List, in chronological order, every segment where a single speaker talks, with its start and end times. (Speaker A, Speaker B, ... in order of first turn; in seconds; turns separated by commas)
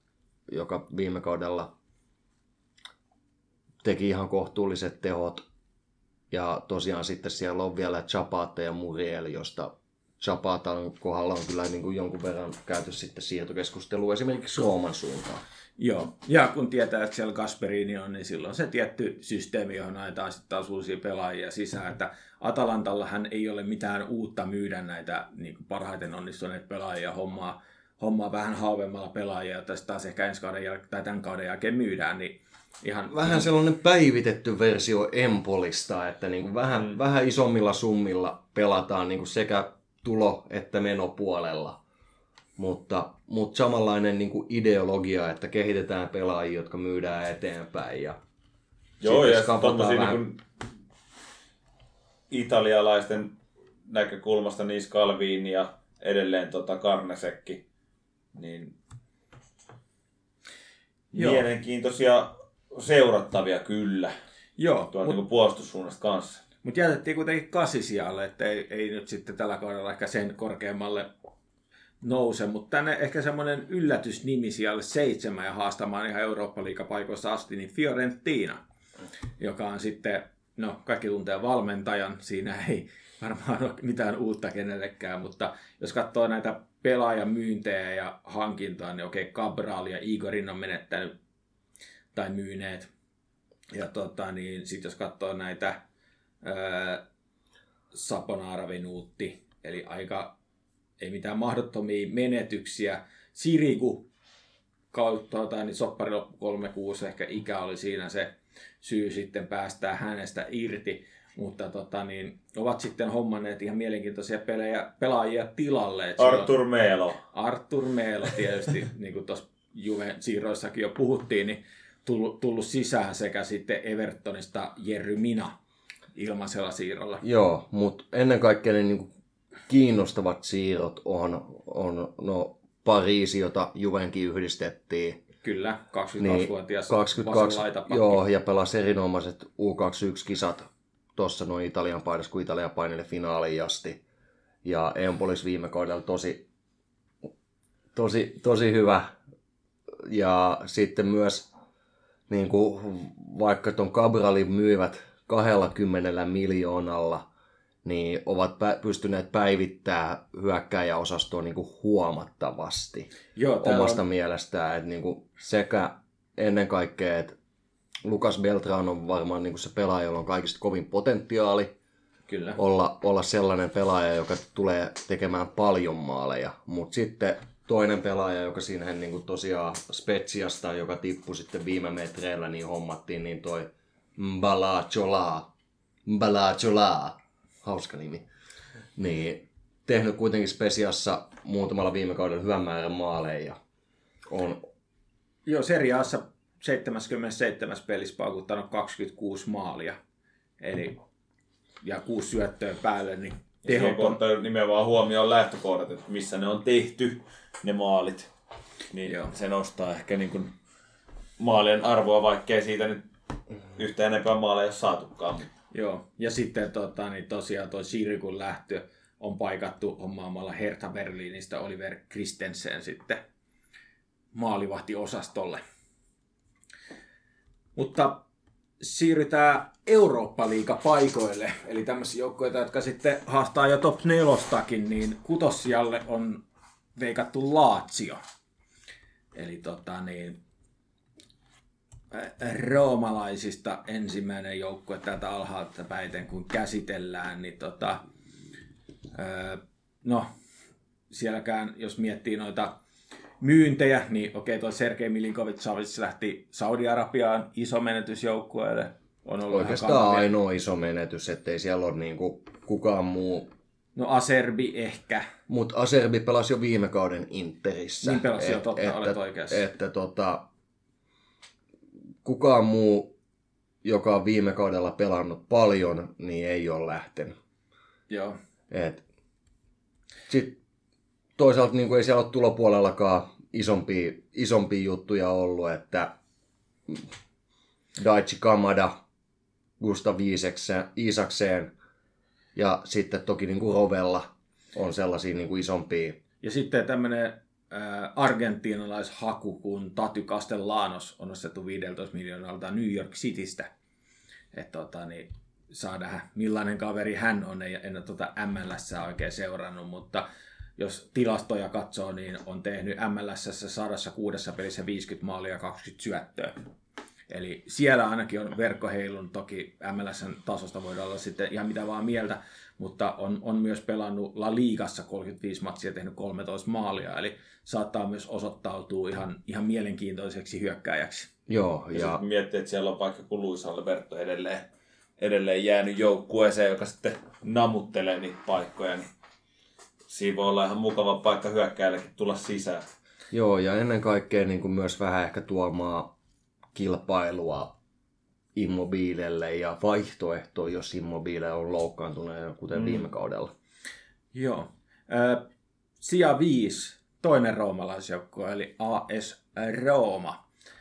Speaker A: 0.5-1.7, Speaker A: 3.8-5.4, Speaker A: 6.3-15.4, Speaker B: 15.8-33.5, Speaker A: 33.1-41.8, Speaker A: 42.6-48.2, Speaker C: 49.0-50.4, Speaker A: 49.0-50.2, Speaker C: 52.3-53.3, Speaker C: 53.9-57.6, Speaker C: 58.4-58.8, Speaker C: 61.1-64.1, Speaker B: 61.1-61.4, Speaker B: 64.6-65.2, Speaker C: 64.9-66.4, Speaker B: 66.6-71.1, Speaker B: 72.0-78.6, Speaker B: 79.4-91.1, Speaker B: 92.1-92.9, Speaker B: 93.7-95.8, Speaker B: 96.4-97.0, Speaker B: 97.9-100.3, Speaker B: 101.0-104.1, Speaker B: 104.9-116.5, Speaker C: 116.2-117.2, Speaker B: 117.3-125.5, Speaker B: 126.2-127.2, Speaker A: 127.2-129.1, Speaker A: 129.7-135.2, Speaker B: 135.4-138.2, Speaker A: 136.2-144.0, Speaker A: 144.6-146.4, Speaker A: 147.9-149.1, Speaker A: 150.0-151.5, Speaker A: 152.3-157.2, Speaker A: 157.8-163.1, Speaker B: 163.4-164.0, Speaker A: 163.6-167.3, Speaker A: 168.0-171.7, Speaker B: 172.3-172.6, Speaker A: 172.6-185.5, Speaker A: 186.1-188.3, Speaker A: 189.0-193.6, Speaker A: 194.3-194.7, Speaker B: 195.5-200.0, Speaker B: 200.6-201.0, Speaker B: 201.8-204.2, Speaker C: 203.7-208.3, Speaker C: 208.9-210.5, Speaker B: 209.1-209.3, Speaker C: 211.4-213.1, Speaker C: 213.8-215.5, Speaker B: 215.7-223.2, Speaker B: 224.3-225.6, Speaker B: 227.8-228.2, Speaker B: 228.8-236.4, Speaker B: 237.0-238.2, Speaker B: 239.3-240.4, Speaker B: 242.1-248.0, Speaker B: 249.2-250.3, Speaker B: 251.1-252.7, Speaker B: 253.4-260.3, Speaker A: 259.5-263.5, Speaker B: 264.0-265.3, Speaker A: 265.5-270.5, Speaker B: 268.0-269.6, Speaker A: 272.2-273.1, Speaker A: 273.8-277.3, Speaker B: 278.1-278.4, Speaker A: 278.7-279.0, Speaker A: 280.3-280.6, Speaker A: 281.4-286.1, Speaker A: 288.0-288.9, Speaker A: 289.8-291.7, Speaker A: 292.6-296.2, Speaker B: 296.4-303.7, Speaker B: 304.5-310.2, Speaker B: 310.8-316.5, Speaker B: 317.3-331.3, Speaker A: 331.5-332.2, Speaker C: 331.9-334.7, Speaker C: 335.2-339.1, Speaker C: 340.1-342.9, Speaker A: 343.3-346.1, Speaker A: 346.7-347.8, Speaker A: 348.6-353.5, Speaker C: 352.8-353.0, Speaker B: 354.3-355.5, Speaker B: 356.0-360.4